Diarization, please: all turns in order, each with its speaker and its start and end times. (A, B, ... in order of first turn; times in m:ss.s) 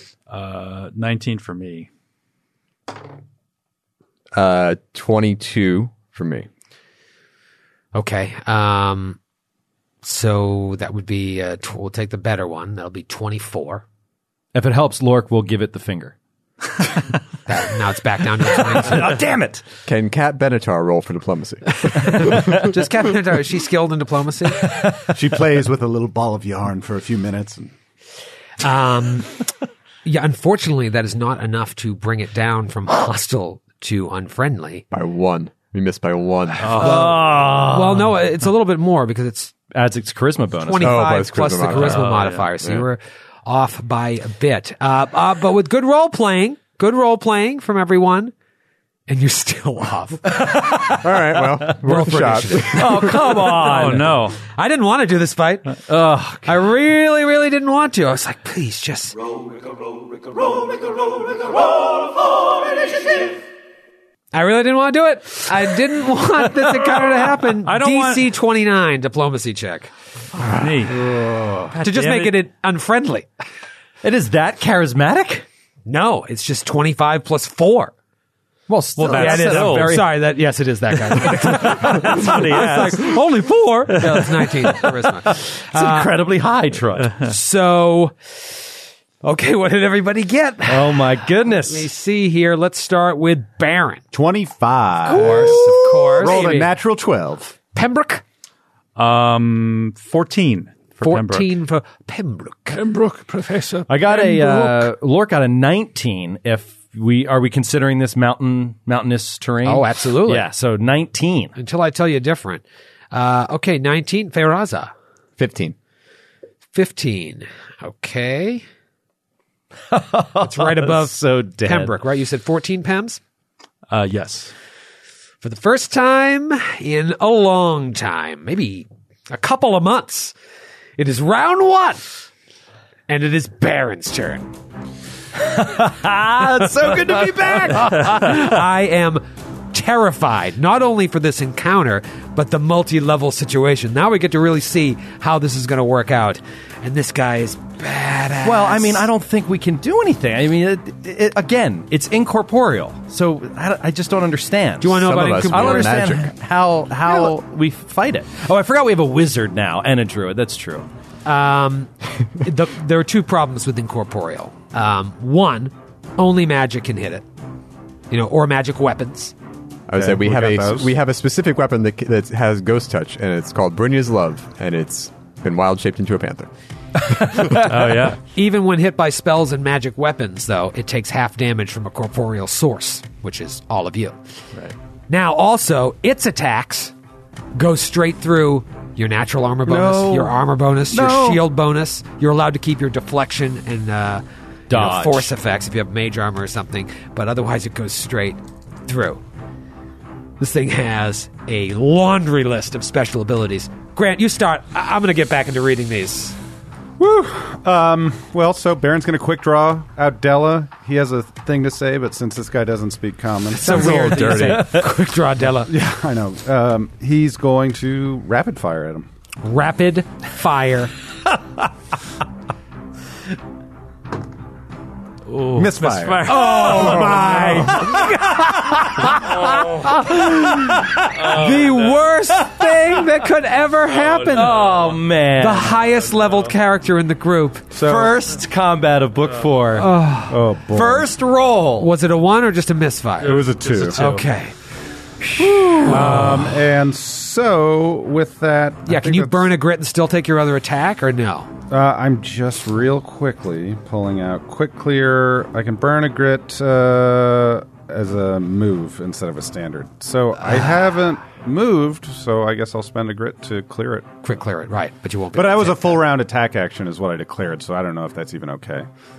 0:00.3-0:01.9 A
0:04.3-0:06.5 B
0:08.0-0:09.2 C
0:10.0-0:13.8 C
0:14.6-0:16.2 D
0:17.5-0:19.1 C
0:18.5-0:19.6 D
0:19.9-0:22.7 B
0:22.4-0:24.7 C
0:24.6-0:25.1 D
0:25.1-0:27.7 E
0:28.6-0:29.4 C
0:30.0-0:34.8 C
0:34.9-0:36.9 B
0:36.6-0:37.2 A
0:36.8-0:39.5 C
0:36.8-0:38.1 D
0:39.7-0:41.1 D
0:40.6-0:48.3 C
0:40.8-0:42.8 B
0:41.9-0:42.4 A
0:49.1-0:50.2 C
0:50.5-0:50.9 D
0:50.8-0:53.2 B
0:51.8-0:52.8 C
0:52.7-0:54.3 D
0:53.4-0:54.4 A
0:54.5-0:55.8 C
0:55.9-0:56.5 D
0:56.4-0:59.2 C
1:04.3-1:09.9 C
1:07.6-1:08.3 A
1:10.6-1:11.0 A
1:11.3-1:13.3 C
1:11.8-1:12.3 A
1:14.0-1:15.5 D
1:15.9-1:17.9 C
1:18.7-1:20.1 D
1:19.0-1:20.0 A
1:19.0-1:26.1 C
1:21.2-1:23.1 D
1:24.1-1:27.2 D
1:27.2-1:28.5 C
1:29.2-1:34.0 C
1:30.7-1:31.9 D
1:34.1-1:37.6 E
1:35.0-1:36.7 C
1:37.7-1:38.2 C
1:39.0-1:41.5 A
1:41.0-1:42.9 C
1:42.7-1:44.9 A
1:43.9-1:51.6 D
1:49.6-1:50.5 C
1:51.6-1:54.9 C
1:55.4-1:55.8 B
1:56.7-1:58.6 C
1:59.9-2:01.9 D
2:00.4-2:03.2 C
2:03.9-2:04.5 A
2:05.4-2:10.3 C
2:11.0-2:12.0 C
2:13.1-2:14.5 C
2:15.4-2:18.4 D
2:17.5-2:29.1 C
2:28.4-2:40.9 D
2:34.8-2:36.1 C
2:34.9-2:36.3 B
2:37.1-2:37.3 C
2:41.3-2:47.2 C
2:48.1-2:49.3 C
2:49.9-2:56.5 B
2:50.0-2:50.9 E
2:57.5-2:58.2 A
2:58.1-3:04.2 C
3:05.1-3:06.9 C
3:07.6-3:19.2 C
3:09.7-3:10.4 D
3:10.9-3:11.4 D
3:14.7-3:15.3 D
3:20.4-3:26.4 C
3:27.0-3:34.6 E
3:33.6-3:35.7 C
3:33.6-3:34.7 B
3:35.7-3:39.1 E
3:39.4-3:40.9 C
3:45.3-3:48.0 A
3:45.6-3:47.8 E
3:46.2-3:54.7 C
3:47.9-3:51.4 D
3:49.2-3:49.9 A
3:51.2-3:52.1 A
3:52.5-3:53.1 D
3:54.0-3:55.0 A
3:54.3-3:55.8 D
3:55.4-3:57.7 C
3:56.0-3:56.5 A
3:57.7-3:58.2 E
3:57.8-3:59.9 D
3:59.7-4:00.5 C
4:00.3-4:01.1 E
4:00.7-4:01.9 D
4:01.8-4:04.5 C
4:03.2-4:04.0 E
4:03.2-4:04.3 A
4:05.4-4:06.5 C
4:05.5-4:09.5 E
4:06.0-4:06.3 A
4:08.9-4:11.5 C
4:11.7-4:24.2 E
4:24.2-4:26.1 C
4:25.3-4:28.9 E